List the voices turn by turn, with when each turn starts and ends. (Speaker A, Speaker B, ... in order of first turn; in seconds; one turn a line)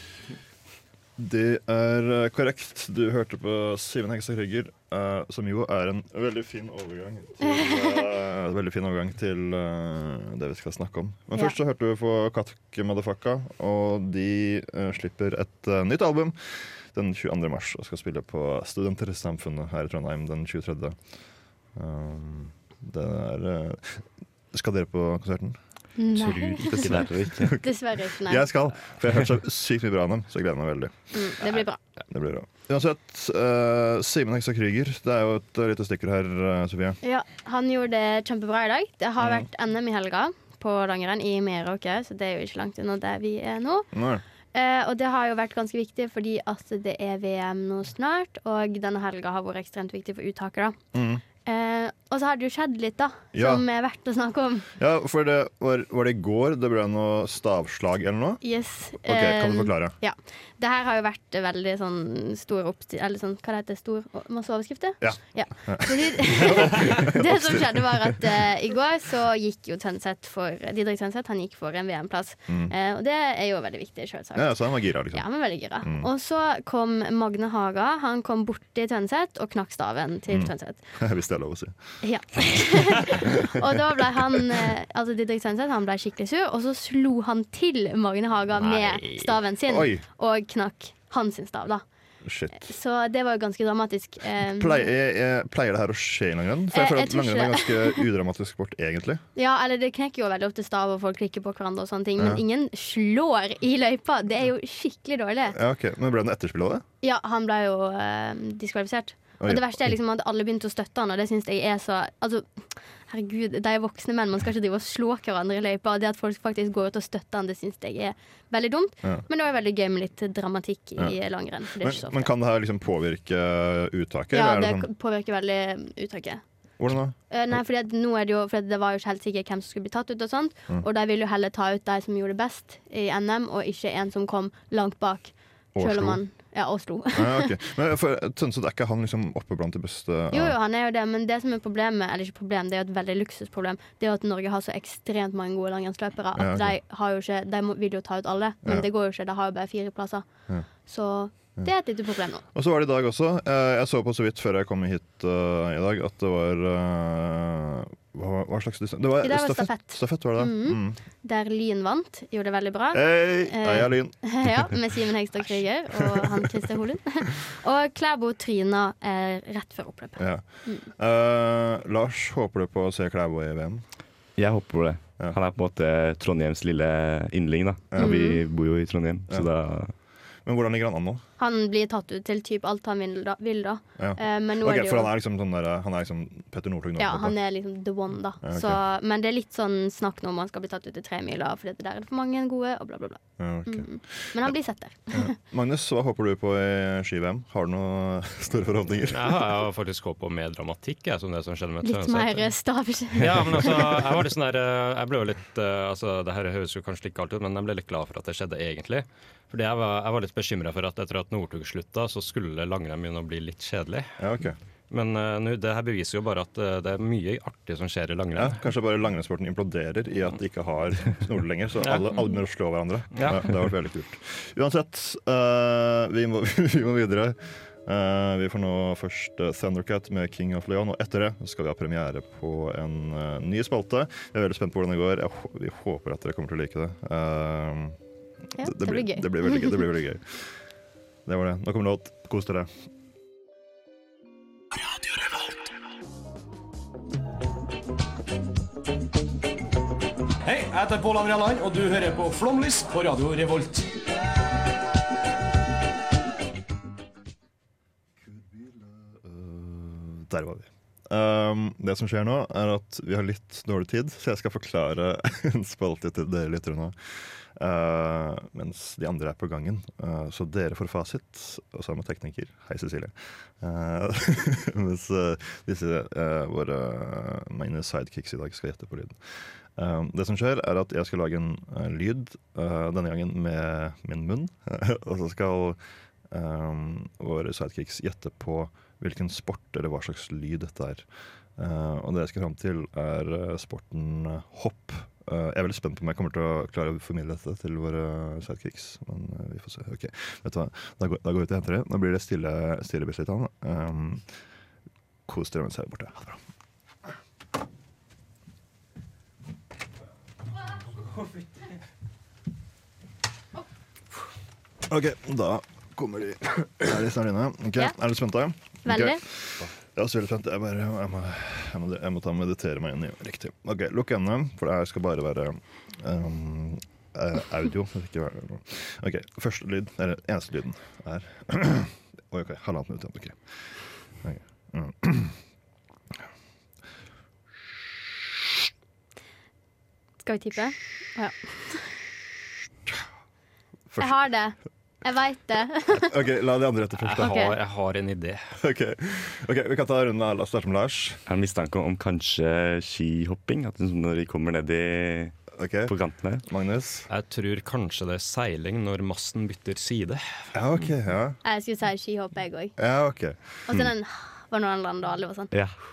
Speaker A: 1.2-21.0
Speaker B: 7.4-8.0
Speaker A: 21.8-25.6
Speaker B: 26.0-28.5
Speaker C: 26.2-27.6
Speaker A: 27.4-31.1
Speaker B: 31.1-31.8
Speaker A: 32.1-37.0
Speaker B: 37.0-43.9
Speaker A: 39.2-39.5
Speaker A: 43.9-44.2
Speaker B: 44.5-50.8
Speaker A: 50.9-51.2
Speaker B: 51.5-54.7
Speaker A: 53.3-53.6
Speaker A: 54.8-58.4
Speaker B: 58.4-74.6
Speaker A: 59.0-60.0
Speaker A: 65.0-68.1
Speaker A: 72.5-72.7
Speaker A: 74.3-76.1
Speaker B: 75.1-80.8
Speaker A: 80.3-81.8
Speaker B: 82.0-91.8
Speaker D: 88.6-89.3
Speaker A: 89.7-90.0
Speaker A: 92.2-92.7
Speaker B: 92.5-94.9
Speaker A: 94.5-99.2
Speaker B: 96.7-98.0
Speaker B: 99.4-105.6
Speaker A: 105.5-106.8
Speaker B: 107.0-112.5
Speaker A: 109.4-109.8
Speaker B: 113.1-122.3
Speaker A: 121.7-124.9
Speaker B: 124.3-126.4
Speaker A: 126.8-127.2
Speaker B: 127.3-137.5
Speaker A: 135.8-136.2
Speaker A: 137.2-140.6
Speaker B: 140.3-150.3
Speaker A: 146.3-146.8
Speaker B: 150.9-152.4
Speaker A: 152.5-161.0
Speaker B: 159.2-170.9
Speaker A: 162.9-164.7
Speaker A: 165.9-166.7
Speaker A: 170.2-173.8
Speaker C: 174.4-179.9
Speaker A: 177.9-178.2
Speaker B: 178.0-178.4
Speaker A: 180.4-181.2
Speaker B: 181.4-185.1
Speaker A: 184.0-187.4
Speaker B: 187.0-195.3
Speaker A: 188.4-188.8
Speaker A: 193.4-194.5
Speaker A: 195.1-199.5
Speaker D: 199.1-202.5
Speaker B: 201.8-203.9
Speaker D: 203.2-214.1
Speaker A: 214.2-214.6
Speaker D: 214.9-218.6
Speaker A: 218.3-238.0
Speaker D: 221.8-222.2
Speaker D: 223.1-223.5
Speaker B: 238.6-239.8
Speaker A: 238.6-240.5
Speaker A: 241.3-242.7
Speaker E: 250.4-253.9
Speaker A: 258.2-266.9
Speaker A: 267.6-279.2
Speaker A: 279.8-285.8
Speaker A: 286.3-304.3
Speaker A: 305.3-306.4
Speaker A: 314.9-333.4
Speaker B: 318.9-319.2
Speaker A: 334.2-335.4
Speaker B: 340.2-341.9
Speaker A: 343.9-344.1
Speaker B: 344.0-346.1
Speaker A: 345.9-347.5
Speaker D: 347.0-348.5
Speaker B: 347.2-347.6
Speaker A: 348.6-351.2
Speaker C: 351.3-356.4
Speaker A: 355.5-355.9
Speaker A: 356.4-357.1
Speaker D: 357.1-360.2
Speaker A: 360.5-361.4
Speaker B: 361.4-362.8
Speaker A: 362.8-363.9
Speaker B: 363.7-365.5